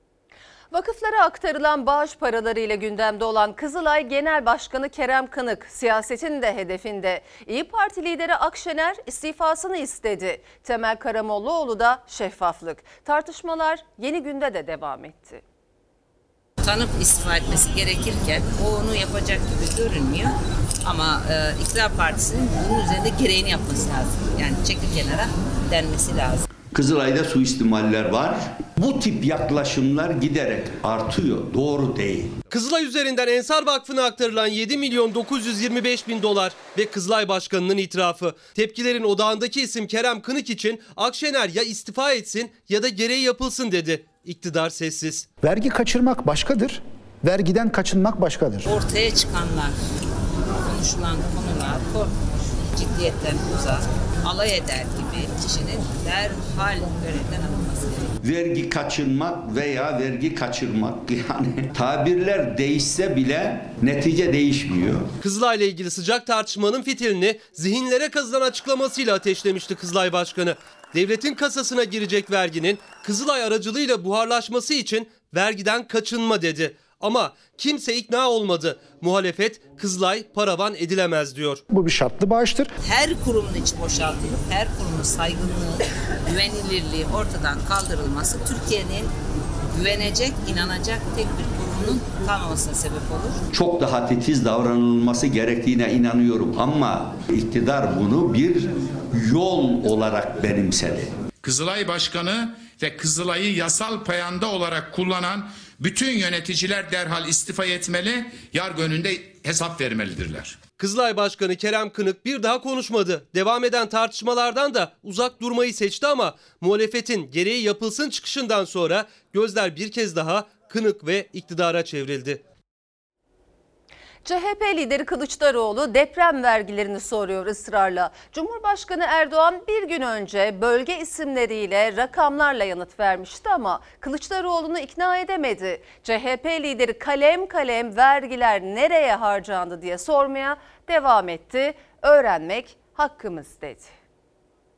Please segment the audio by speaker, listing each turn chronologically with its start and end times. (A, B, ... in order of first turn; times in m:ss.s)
0:00.7-0:15.4 A
0:16.6-0:20.4 B
0:20.9-0:26.4 B
0:26.7-0:32.4 C
0:32.5-0:45.3 D
0:45.4-0:48.7 E
0:48.7-0:49.8 B
0:50.6-0:52.1 B
0:52.7-0:58.1 B
0:58.2-1:05.1 C
1:05.2-1:21.6 D
1:21.7-1:22.7 E
1:22.8-1:29.1 B
1:29.7-1:33.4 B
1:33.5-1:41.1 C
1:41.4-1:50.6 F
1:50.8-2:02.4 D
2:04.2-2:23.9 A